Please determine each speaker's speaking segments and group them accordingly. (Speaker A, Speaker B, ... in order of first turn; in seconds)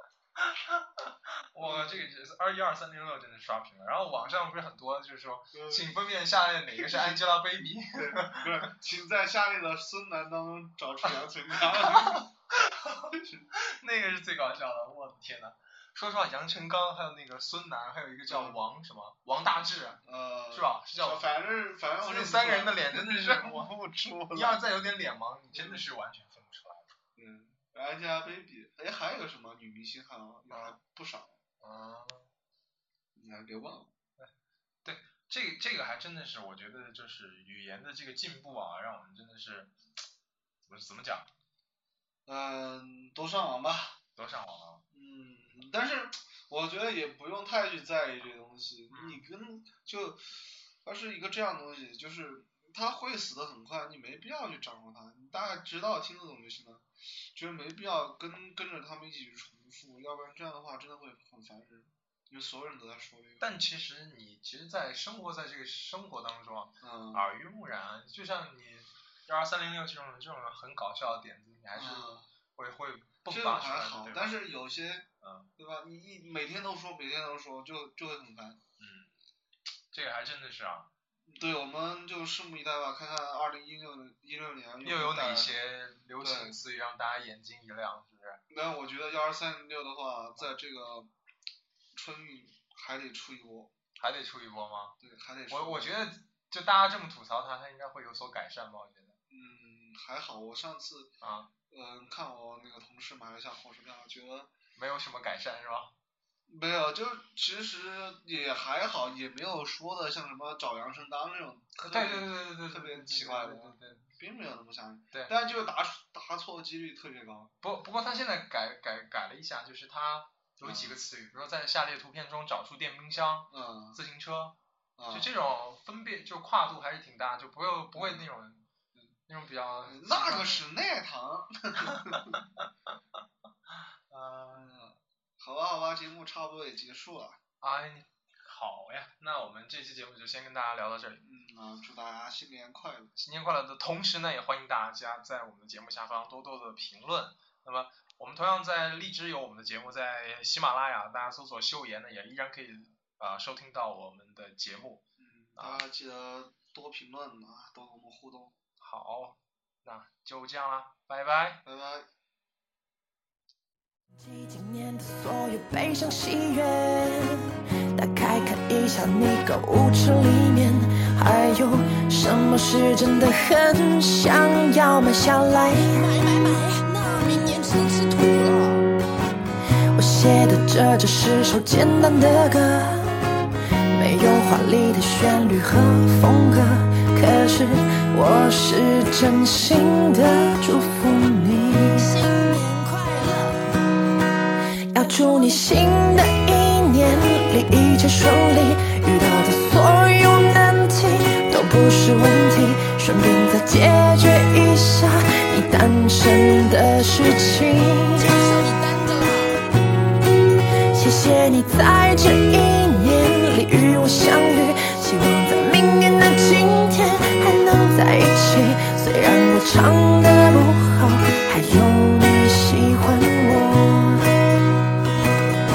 Speaker A: 0.4-8.7, 11.7-21.3, 22.0-23.7, 24.3-26.9, 30.5-30.8, 31.6-32.3, 34.8-39.7, 40.7-41.3, 44.1-44.8, 48.9-49.2, 63.4-74.4, 75.2-75.5, 78.8-79.1, 79.9-80.9, 84.8-88.4, 94.0-95.0, 95.5-99.2, 101.2-101.5, 104.8-105.9, 111.8-114.1, 117.6-124.6, 125.1-128.7, 129.3-130.7, 132.0-132.4, 134.1-134.7, 137.6-141.2, 143.2-155.0, 155.6-155.8, 158.8-161.6
Speaker B: 1.6-2.1, 5.5-5.9, 6.7-7.2, 7.9-12.3, 13.1-13.4, 18.3-18.6, 20.0-24.6, 25.5-25.8, 27.1-31.4, 33.1-33.9, 42.2-44.0, 44.9-63.5, 66.8-67.2, 71.7-72.3, 73.2-78.6, 81.3-85.5, 86.2-86.6, 88.5-91.1, 91.9-93.7, 95.0-96.1, 99.3-101.1, 101.7-104.5, 106.5-117.5, 120.6-121.0, 123.5-124.0, 125.0-125.3, 127.9-128.3, 129.8-132.4, 134.5-137.4, 141.2-143.1, 155.2-158.5, 161.6-162.1
Speaker C: 164.2-176.1, 179.9-192.2, 194.9-208.3, 210.9-224.3
Speaker D: 175.9-178.9, 192.0-193.7, 195.0-195.7, 208.2-209.7